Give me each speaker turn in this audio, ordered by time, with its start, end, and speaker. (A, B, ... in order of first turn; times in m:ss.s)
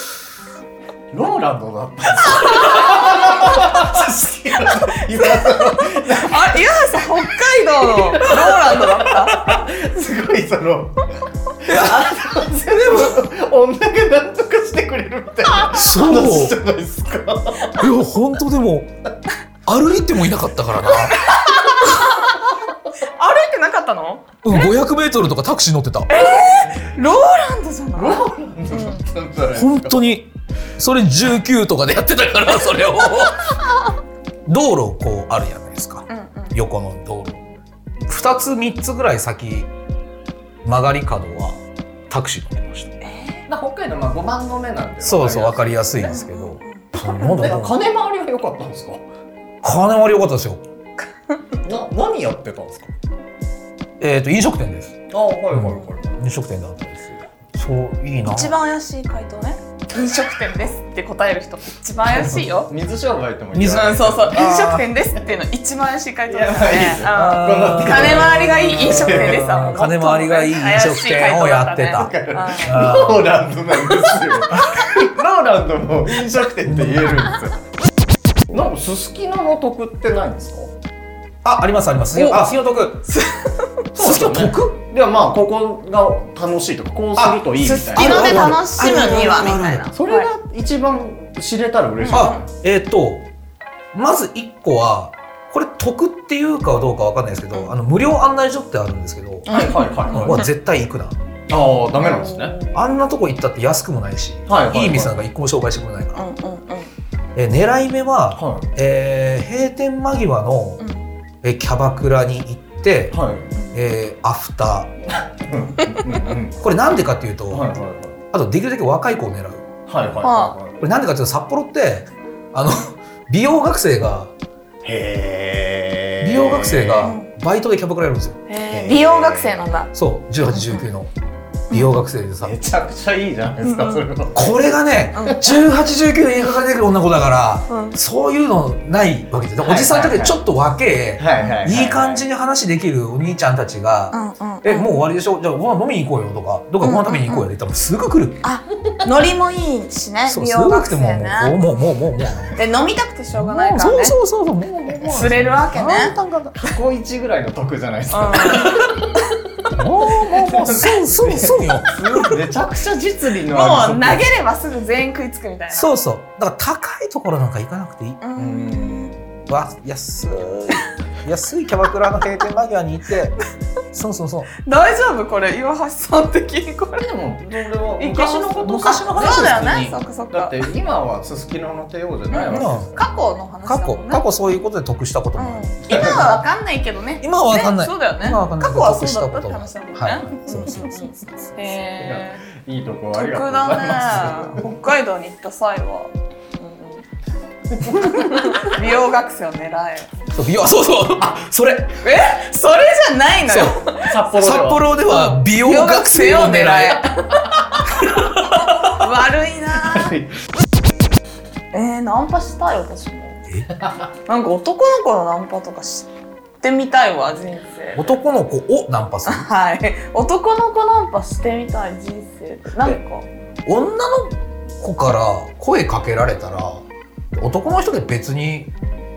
0:01.1-0:07.1 A
0:02.4-0:03.8 B
0:05.1-0:09.6 B
0:07.9-0:17.8 A
0:11.7-0:13.1 C
0:15.7-0:16.6 C
0:17.8-0:18.9 C
0:19.7-0:21.4 C
0:21.1-0:22.5 B
0:23.2-0:24.7 B
0:24.4-0:26.2 C
0:26.1-0:29.0 B
0:28.0-0:30.0 A
0:29.5-0:33.8 C
0:34.5-0:37.4 C
0:36.1-0:36.6 B
0:38.1-0:39.7 C
0:40.6-0:43.0 C
0:43.0-0:43.4 B
0:43.5-0:46.2 A
0:45.0-0:47.8 C
0:46.0-0:47.5 B
0:47.2-0:49.0 A
0:49.6-0:50.6 C
0:51.6-0:52.9 A
0:54.0-0:55.0 C
0:55.1-0:56.1 A
0:55.5-0:58.6 C
0:55.7-0:56.1 B
0:58.3-1:02.7 B
1:02.1-1:04.4 A
1:03.5-1:04.9 C
1:03.7-1:12.9 B
1:06.3-1:09.5 A
1:07.1-1:13.4 C
1:12.0-1:17.6 A
1:13.7-1:14.9 B
1:16.6-1:17.3 C
1:18.5-1:20.7 A
1:21.4-1:23.1 C
1:22.2-1:22.5 B
1:23.1-1:23.7 B
1:23.9-1:32.4 A
1:24.0-1:24.8 C
1:27.2-1:29.9 C
1:27.6-1:30.3 B
1:32.0-1:32.4 B
1:32.1-1:33.3 C
1:33.9-1:41.2 C
1:39.5-1:40.5 B
1:39.5-1:40.4 A
1:41.5-1:42.6 A
1:42.0-1:42.8 B
1:42.7-1:46.3 C
1:44.5-1:45.2 A
1:46.2-1:46.9 B
1:47.4-1:50.8 C
1:48.4-1:48.7 A
1:50.8-1:51.0 B
1:51.4-1:53.2 C
1:53.1-1:53.5 A
1:53.7-1:55.0 C
1:55.1-1:56.6 A
1:55.8-1:56.2 B
1:56.6-1:57.7 C
1:57.5-1:58.2 A
1:58.3-1:59.7 C
1:59.9-2:00.8 A
2:00.2-2:00.6 B
2:00.8-2:04.3 C
2:04.8-2:07.2 A
2:06.2-2:08.4 C
2:07.0-2:07.3 B
2:08.5-2:09.9 B
2:08.7-2:09.6 A
2:09.9-2:11.1 C
2:10.5-2:10.8 B
2:11.7-2:12.6 C
2:12.4-2:14.6 A
2:13.6-2:14.0 B
2:14.3-2:28.4 C
2:15.1-2:15.4 B
2:17.7-2:18.0 B
2:19.6-2:20.4 A
2:21.2-2:22.2 A
2:24.1-2:25.0 B
2:26.8-2:27.5 B
2:28.4-2:31.6 B
2:30.3-2:32.6 C
2:32.6-2:34.2 B
2:33.3-2:36.6 C
2:35.1-2:36.2 B
2:36.6-2:39.0 A
2:38.1-2:39.2 B
2:39.7-2:42.4 C
2:39.8-2:44.3 A
2:43.5-2:46.0 B
2:45.7-2:48.2 C
2:48.2-2:49.2 B
2:48.4-2:49.1 A
2:49.5-2:53.4 C
2:53.9-2:54.5 C
2:54.6-3:00.6 B
2:57.0-3:03.0 A
2:58.6-2:59.8 C
3:02.3-3:04.2 B
3:02.5-3:02.9 C
3:03.6-3:05.7 C
3:05.4-3:12.4 B
3:05.9-3:06.4 A
3:07.2-3:11.6 C
3:12.0-3:14.6 A
3:13.1-3:17.0 B
3:17.8-3:18.5 A
3:17.8-3:20.1 B
3:20.3-3:22.0 C
3:22.0-3:24.2 B
3:23.5-3:23.8 C
3:24.0-3:24.9 A
3:24.3-3:27.1 C
3:25.1-3:30.1 B
3:27.9-3:28.9 C
3:29.8-3:30.3 A
3:31.7-3:33.4 B
3:34.3-3:36.1 B
3:36.6-3:38.1 B
3:38.0-3:39.5 C
3:39.3-3:43.3 B
3:43.7-3:48.7 C